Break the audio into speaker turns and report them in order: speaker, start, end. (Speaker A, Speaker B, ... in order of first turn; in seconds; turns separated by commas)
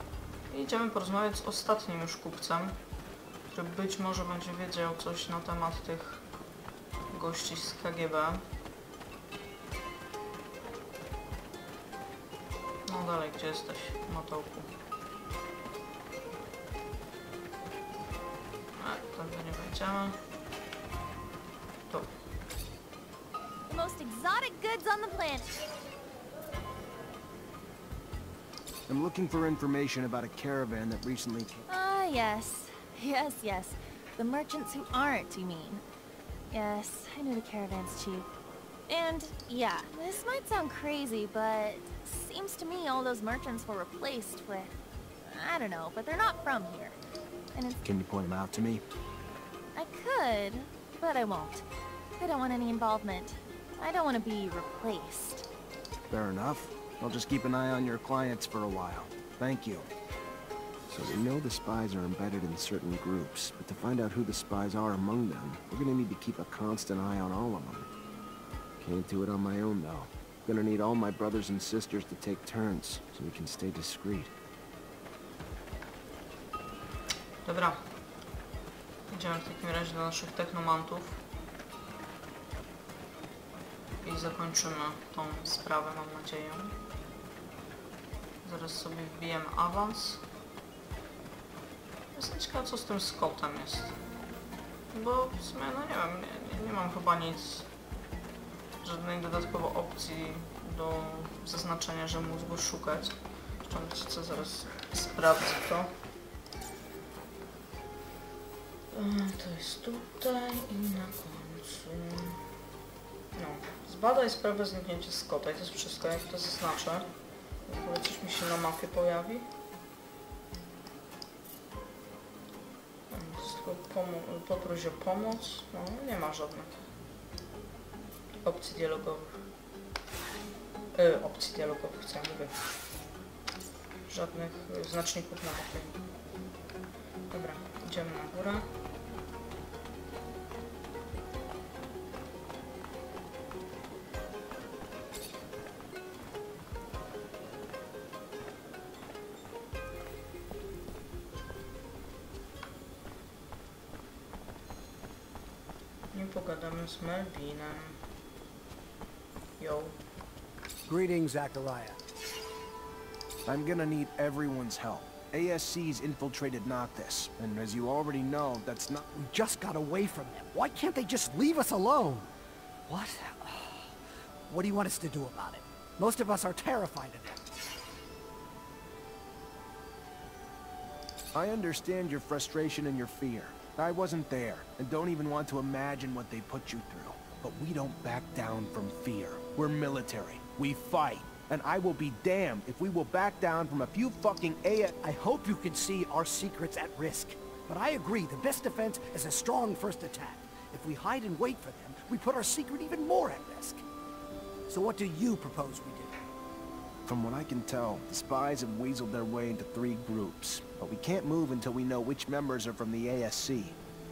Speaker A: 0.5-2.8, Speaker A: 3.5-6.2, Speaker A: 7.1-8.4, Speaker A: 12.8-14.7, Speaker A: 18.8-20.2, Speaker B: 23.7-25.5, Speaker C: 28.9-31.6, Speaker B: 31.7-35.8, Speaker B: 36.5-38.3, Speaker B: 38.9-44.7, Speaker B: 45.2-46.9, Speaker B: 47.5-47.8, Speaker C: 47.8-48.8, Speaker B: 49.7-51.6, Speaker B: 52.2-55.4, Speaker C: 56.1-59.9, Speaker C: 60.9-67.9, Speaker C: 68.8-74.3, Speaker A: 77.4-77.8, Speaker A: 79.1-81.2, Speaker A: 84.0-86.7, Speaker A: 88.4-90.2, Speaker A: 92.1-93.9, Speaker A: 94.9-97.7, Speaker A: 98.8-105.9, Speaker A: 108.9-112.4, Speaker A: 113.3-117.1, Speaker A: 117.6-119.5, Speaker A: 123.1-126.7, Speaker A: 128.4-129.4, Speaker A: 130.9-132.6, Speaker A: 134.1-135.9, Speaker A: 137.3-138.6, Speaker A: 156.1-158.0, Speaker A: 159.6-160.0, Speaker D: 160.8-162.0, Speaker C: 163.4-169.0, Speaker D: 169.1-172.3, Speaker D: 172.9-173.9, Speaker D: 174.5-177.4, Speaker C: 181.3-194.9, Speaker D: 195.0-203.8, Speaker D: 204.7-206.1, Speaker C: 207.0-213.8